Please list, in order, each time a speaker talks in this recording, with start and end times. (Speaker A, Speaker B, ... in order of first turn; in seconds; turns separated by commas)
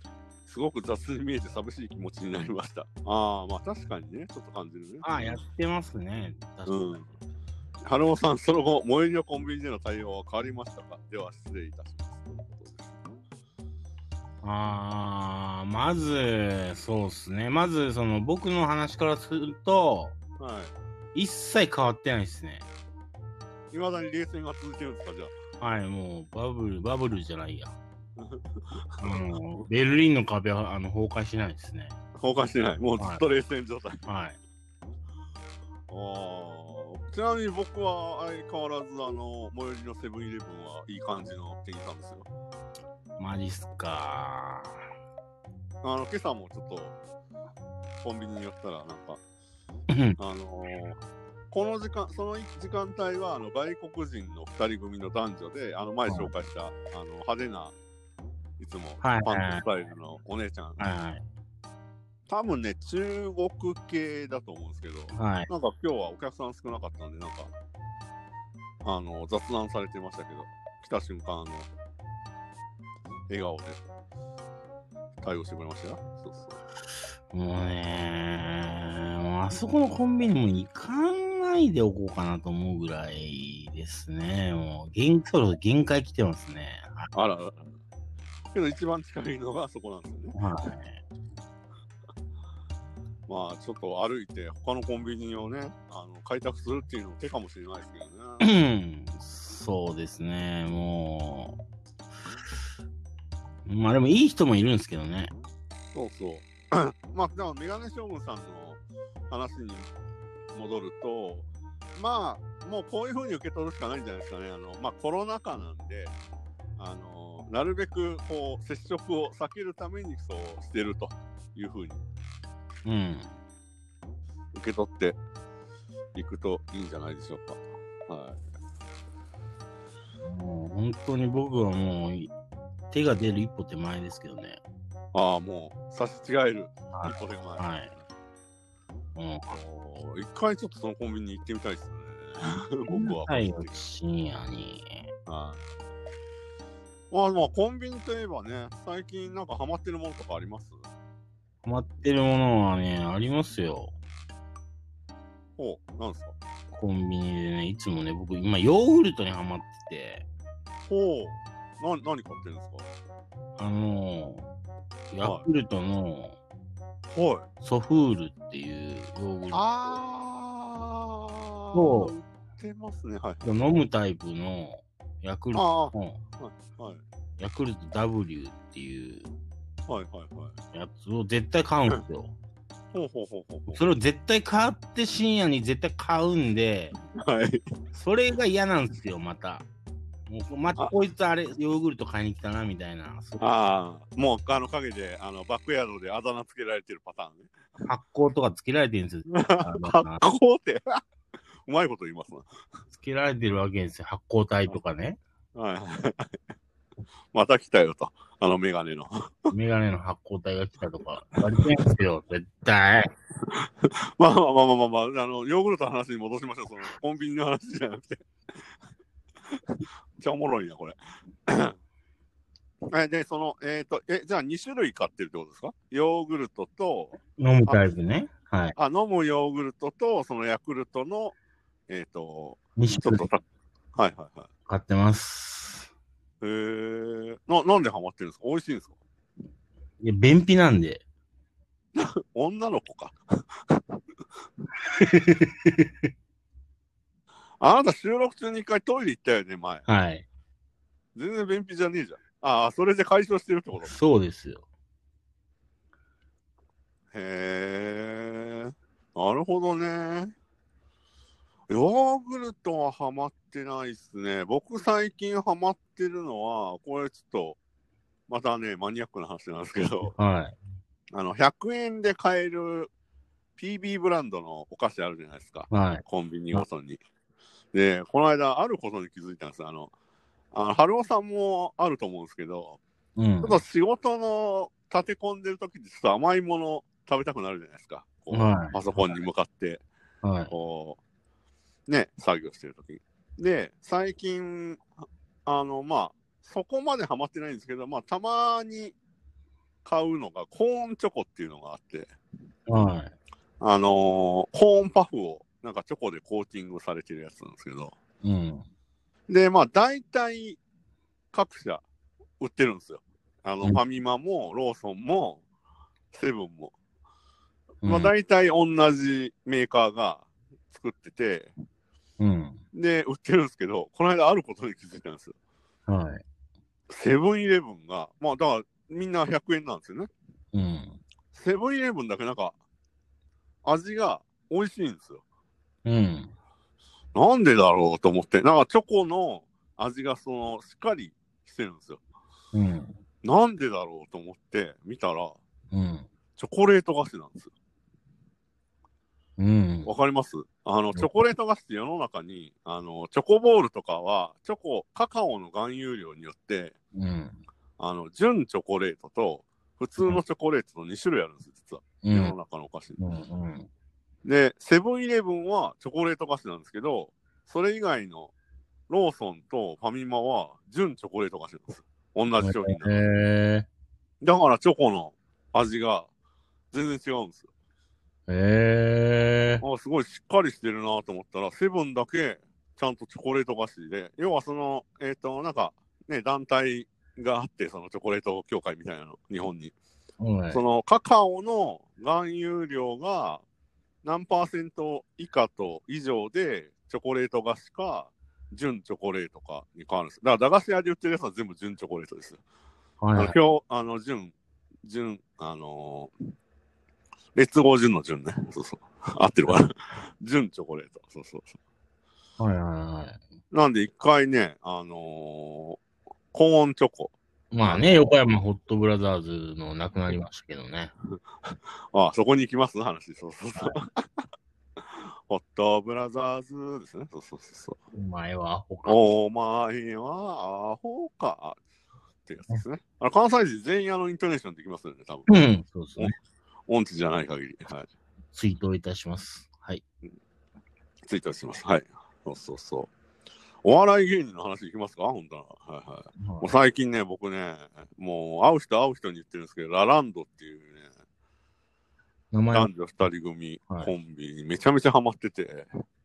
Speaker A: 0.5-5.3, Speaker B: 5.0-6.8, Speaker A: 6.7-7.1, Speaker A: 7.8-12.9, Speaker B: 14.4-20.1, Speaker A: 20.4-20.7, Speaker B: 21.1-22.7, Speaker A: 23.7-25.3, Speaker B: 25.6-27.8, Speaker A: 28.2-28.4, Speaker A: 28.9-29.2, Speaker B: 29.0-31.9, Speaker A: 32.2-34.0, Speaker B: 33.0-33.2, Speaker B: 34.0-34.4, Speaker A: 35.9-42.3, Speaker B: 43.2-44.8, Speaker A: 45.8-46.9, Speaker A: 48.0-49.2, Speaker B: 49.9-50.2, Speaker A: 50.2-51.0, Speaker A: 51.5-57.7, Speaker A: 58.6-60.9, Speaker B: 59.0-59.6, Speaker B: 60.8-61.2, Speaker A: 62.3-67.5, Speaker B: 65.1-65.5, Speaker A: 68.8-71.7, Speaker A: 73.3-73.8, Speaker A: 75.2-76.6, Speaker B: 77.3-87.1, Speaker A: 87.1-87.7, Speaker A: 88.5-90.4, Speaker B: 90.3-91.0, Speaker A: 93.3-98.5, Speaker B: 98.4-101.6, Speaker B: 103.7-105.3, Speaker A: 105.9-109.9, Speaker A: 110.5-116.1, Speaker A: 116.8-122.0, Speaker B: 122.8-123.3, Speaker A: 124.5-125.2, Speaker A: 126.1-128.4, Speaker B: 130.2-132.3, Speaker B: 132.9-134.6, Speaker A: 135.1-137.6, Speaker B: 136.9-137.9, Speaker B: 139.1-139.6, Speaker A: 139.5-143.7, Speaker B: 142.9-145.1, Speaker A: 145.3-145.6, Speaker A: 147.1-150.8, Speaker B: 151.6-153.9, Speaker A: 155.6-156.3, Speaker B: 156.7-160.2, Speaker A: 160.9-162.9, Speaker B: 163.6-164.5, Speaker B: 165.1-166.4, Speaker A: 167.1-167.5, Speaker B: 167.6-169.6, Speaker A: 169.5-173.5, Speaker B: 171.7-172.1, Speaker B: 173.4-176.2, Speaker A: 175.5-177.0, Speaker B: 177.4-179.3, Speaker A: 179.9-180.5, Speaker B: 180.7-182.3, Speaker A: 182.9-183.8, Speaker B: 183.7-186.9, Speaker A: 187.2-187.6, Speaker B: 187.9-189.6, Speaker B: 190.3-193.5, Speaker A: 193.4-197.5, Speaker B: 197.8-200.2, Speaker A: 199.3-201.0, Speaker A: 201.7-202.5, Speaker B: 202.9-205.2, Speaker A: 205.5-206.3, Speaker A: 207.3-209.5, Speaker B: 209.5-213.1, Speaker A: 211.3-211.6, Speaker A: 213.5-218.2, Speaker A: 219.7-221.0, Speaker A: 221.5-221.7, Speaker A: 222.9-227.8, Speaker B: 227.4-228.8, Speaker A: 228.8-231.3, Speaker A: 231.9-233.4, Speaker B: 232.8-233.2, Speaker A: 233.9-234.5, Speaker B: 234.7-235.9, Speaker A: 236.4-238.9, Speaker B: 240.0-241.0, Speaker A: 241.9-243.2, Speaker B: 244.8-245.9, Speaker A: 247.6-249.8, Speaker B: 249.9-250.2, Speaker A: 251.1-253.9, Speaker B: 253.8-254.6, Speaker A: 257.1-260.3, Speaker A: 261.7-267.6, Speaker A: 268.3-270.1, Speaker B: 270.1-270.5, Speaker A: 271.1-272.9, Speaker A: 273.6-277.0, Speaker B: 275.7-276.6, Speaker A: 277.7-279.9, Speaker A: 280.5-282.8, Speaker B: 283.1-283.6, Speaker A: 283.4-289.8, Speaker B: 288.3-289.1, Speaker B: 290.2-290.5, Speaker A: 290.5-291.0, Speaker A: 291.9-294.8, Speaker A: 295.4-298.9, Speaker A: 299.8-302.1, Speaker B: 302.7-303.1, Speaker A: 303.6-307.9, Speaker B: 308.2-308.6, Speaker A: 309.3-310.6, Speaker A: 311.3-311.8, Speaker A: 312.4-315.4, Speaker A: 316.1-316.7, Speaker B: 317.8-318.1, Speaker A: 317.8-321.5, Speaker B: 322.2-322.6, Speaker A: 322.7-325.3, Speaker B: 325.9-326.2, Speaker A: 326.9-330.1, Speaker B: 330.5-331.0, Speaker A: 331.3-332.6, Speaker A: 333.6-335.2, Speaker B: 335.8-336.3, Speaker A: 337.1-342.0, Speaker B: 342.5-343.0, Speaker A: 343.2-345.4, Speaker B: 345.7-346.1, Speaker A: 346.4-347.5, Speaker B: 349.4-349.9, Speaker A: 349.9-356.8, Speaker B: 356.9-357.4, Speaker A: 357.8-363.0, Speaker B: 362.0-362.4, Speaker B: 363.0-363.7, Speaker A: 364.2-368.3, Speaker A: 368.9-372.9, Speaker B: 372.4-373.7, Speaker A: 374.2-376.1, Speaker A: 376.7-377.5, Speaker B: 378.3-379.6, Speaker A: 379.6-389.7, Speaker B: 390.2-390.6, Speaker A: 390.5-393.4, Speaker A: 394.0-402.4, Speaker B: 403.0-403.3, Speaker A: 403.1-404.3, Speaker A: 404.8-406.1, Speaker A: 407.3-411.6, Speaker B: 412.4-413.2, Speaker A: 413.5-415.8, Speaker A: 416.3-418.1, Speaker B: 417.5-420.9, Speaker A: 421.9-424.0, Speaker A: 425.3-427.8, Speaker B: 427.9-429.0, Speaker A: 428.9-431.6, Speaker A: 432.2-435.4, Speaker B: 435.3-436.1, Speaker A: 436.7-437.9, Speaker B: 438.3-439.8, Speaker A: 441.0-442.9, Speaker A: 443.6-450.9, Speaker B: 446.2-446.5, Speaker B: 452.3-452.7, Speaker A: 452.5-455.7